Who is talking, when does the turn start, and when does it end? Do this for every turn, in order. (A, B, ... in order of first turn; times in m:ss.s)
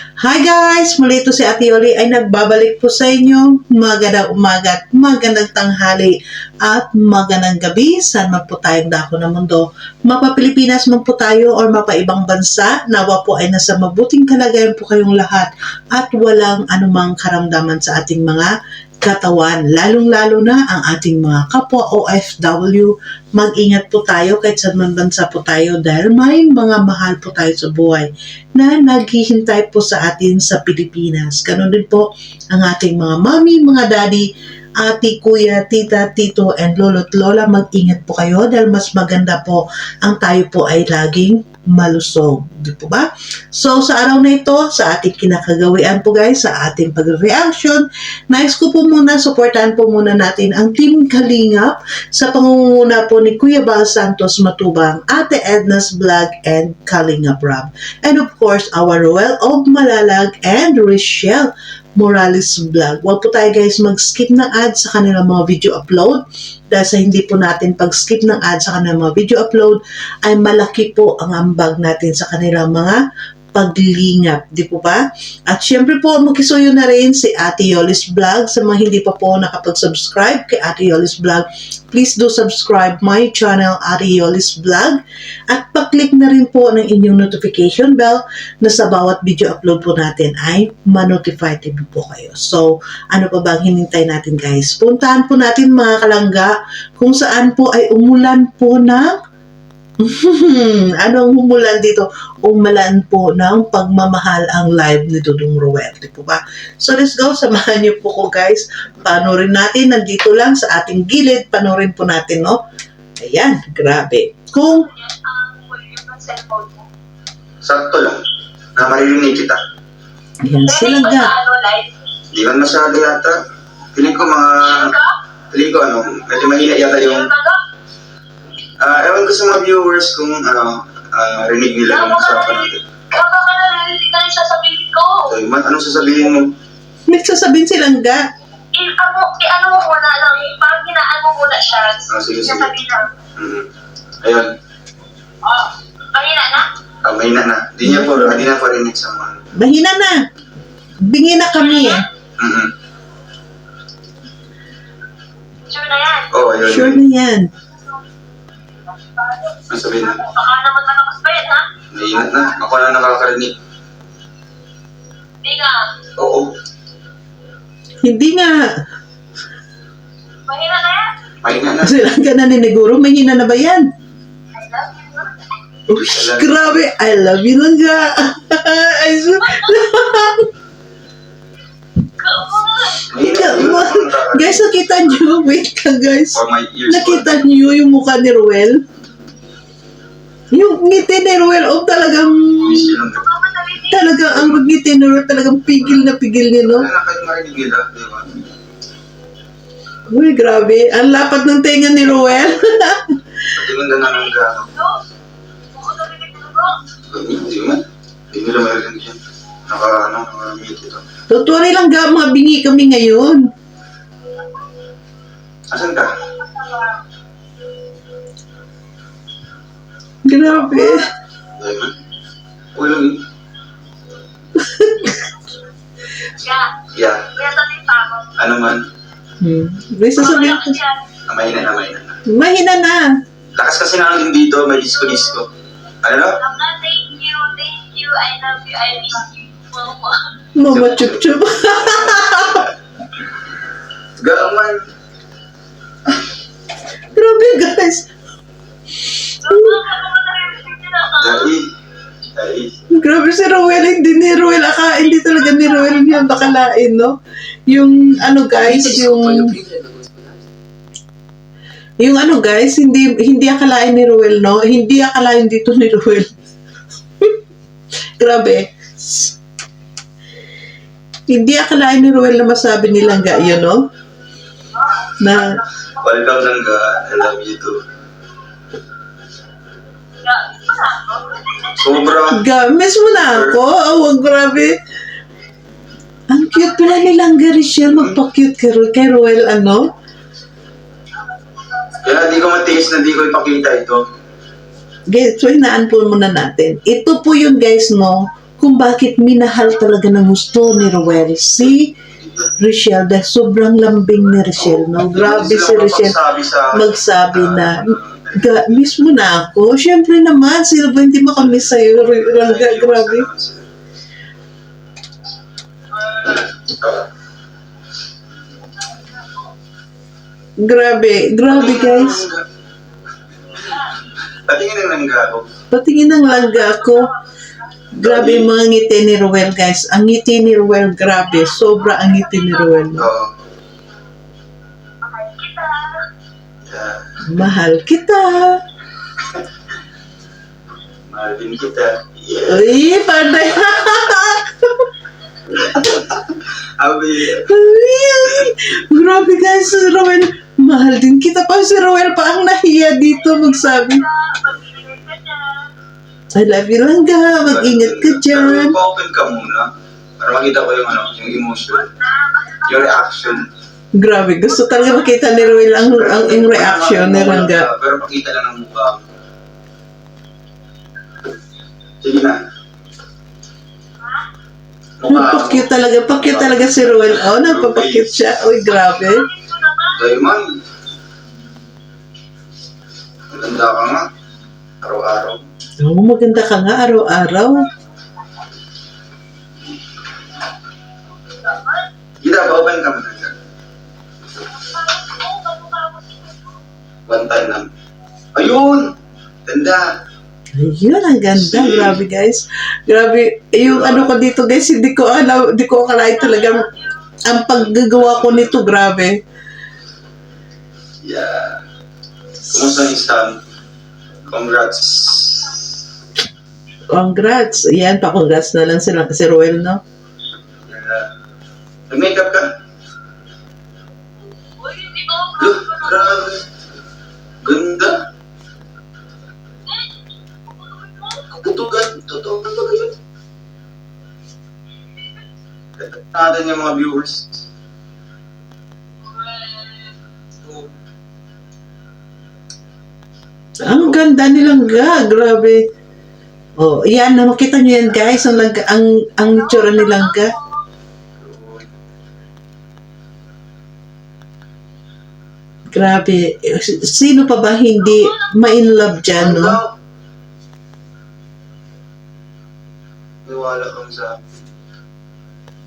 0:00.2-1:13.0 A
1:13.6-1:39.1 A
1:40.0-1:52.6 A
1:53.2-1:54.9 A
1:54.6-1:56.9 B
1:57.6-1:58.2 C
1:58.8-1:59.6 C
2:00.4-2:01.3 A
2:00.7-2:01.9 B
2:02.3-2:03.4 C
2:04.0-2:04.9 C
2:04.6-2:05.2 B
2:05.5-2:07.3 C
2:06.4-2:07.6 B
2:08.8-2:12.8 C
2:11.9-2:15.3 B
2:15.3-2:16.5 C
2:17.1-2:18.2 A
2:18.7-2:23.1 B
2:22.1-2:22.7 C
2:23.4-2:23.7 C
2:24.2-2:24.5 C
2:25.4-2:26.7 B
2:27.0-2:29.4 C
2:27.8-2:28.5 A
2:29.6-2:30.2 A
2:31.0-2:32.0 A
2:31.8-2:32.0 B
2:32.4-2:32.7 C
2:35.7-2:36.3 B
2:36.3-2:37.0 C
2:36.6-2:37.5 A
2:39.3-2:42.5 B
2:39.7-2:40.2 C
2:41.9-2:43.5 C
2:45.4-2:45.9 B
2:46.2-2:46.5 C
2:48.0-2:48.7 A
2:50.5-2:51.1 B
2:51.4-2:51.9 C
2:51.8-2:53.9 A
2:54.5-2:55.4 B
2:55.9-3:00.5 A
2:56.0-2:56.9 C
2:59.4-3:00.0 B
3:02.2-3:03.1 B
3:03.1-3:05.2 C
3:03.2-3:08.8 A
3:06.4-3:07.3 C
3:10.5-3:13.0 A
3:12.6-3:13.2 C
3:13.1-3:14.1 B
3:13.9-3:16.9 A
3:14.3-3:14.6 C
3:16.6-3:18.5 C
3:20.1-3:23.2 A
3:23.5-3:24.7 C
3:24.0-3:25.0 B
3:25.7-3:26.8 B
3:27.1-3:31.0 C
3:31.3-3:33.5 A
3:35.7-3:36.1 C
3:40.2-3:41.1 A
3:41.6-3:41.9 C
3:42.8-3:43.2 C
3:44.6-3:45.3 A
3:46.4-3:46.7 B
3:46.9-3:47.2 C
3:47.3-3:48.4 B
3:48.4-3:48.9 C
3:49.4-3:50.8 A
3:50.2-3:51.0 B
3:51.3-3:52.2 C
3:52.3-3:53.2 A
3:53.6-3:55.5 C
3:55.0-3:55.4 B
3:56.0-3:56.4 C
3:56.4-4:00.3 B
4:00.6-4:02.7 A
4:00.7-4:01.3 C
4:01.8-4:02.1 C
4:04.2-4:04.8 C
4:07.1-4:08.1 A
4:09.4-4:11.5 B
4:09.5-4:09.8 A
4:11.2-4:11.7 C
4:12.4-4:12.7 C
4:12.9-4:17.1 A
4:15.6-4:16.1 B
4:17.7-4:19.6 A
4:22.0-4:26.3 A
4:28.2-4:29.4 A
4:31.3-4:33.8 A
4:35.2-4:35.6 A
4:36.0-4:37.8 C
4:40.2-4:42.1 B
4:41.8-4:42.4 C
4:42.3-4:44.8 A
4:43.2-4:43.6 C
4:46.3-4:49.9 A
4:52.0-4:54.0 C
4:55.1-5:02.0 A
5:01.6-5:02.5 C
5:02.6-5:06.2 A
5:04.6-5:08.8 C
5:06.7-5:13.3 A
5:11.4-5:13.7 C
5:16.8-5:17.1 C
5:20.6-5:22.2 A
5:21.5-5:22.4 C
5:24.5-5:25.5 C
5:25.7-5:27.1 A
5:26.4-5:27.2 B
5:27.9-5:33.1 A
5:28.0-5:28.5 C
5:31.3-5:33.0 B
5:33.0-5:33.3 C
5:35.0-5:36.1 B
5:36.7-5:37.0 C
5:37.2-5:38.6 A
5:41.1-5:42.6 C
5:42.5-5:44.9 A
5:45.6-5:47.5 C
5:47.4-5:54.0 A
5:53.1-5:55.7 B
5:56.4-5:58.8 A
5:57.4-6:01.9 C
6:01.7-6:03.4 B
6:02.7-6:03.5 C
6:04.0-6:07.7 A
6:04.5-6:05.6 B
6:05.8-6:09.0 C
6:12.0-6:12.4 C
6:15.0-6:18.1 C
6:15.1-6:19.3 A
6:18.9-6:20.0 B
6:20.0-6:20.6 C
6:23.3-6:24.1 C
6:24.8-6:25.4 C
6:25.8-6:27.7 A
6:31.3-6:31.8 B
6:32.2-6:33.4 C
6:34.5-6:36.6 B
6:37.1-6:37.7 C
6:38.4-6:38.9 C
6:39.5-6:39.9 C
6:40.6-6:46.7 A
6:41.4-6:42.0 C
6:43.7-6:44.1 C
6:46.2-6:46.9 B
6:47.3-6:49.2 A
6:48.0-6:48.6 C
6:51.0-6:51.6 C
6:52.5-6:53.4 C
6:54.3-6:55.6 C
6:56.9-6:59.8 A
7:00.7-7:01.1 C
7:01.9-7:02.5 C
7:04.6-7:06.3 B
7:05.4-7:06.4 C
7:07.4-7:08.0 C
7:10.5-7:11.3 B
7:11.3-7:12.9 C
7:15.8-7:17.4 C
7:19.1-7:19.9 B
7:23.6-7:24.0 C
7:23.6-7:25.6 A
7:26.6-7:30.4 A
7:29.3-7:30.6 B
7:31.2-7:31.7 C
7:35.7-7:39.6 A
7:37.8-7:38.5 B
7:39.2-7:39.7 C
7:43.3-7:44.2 C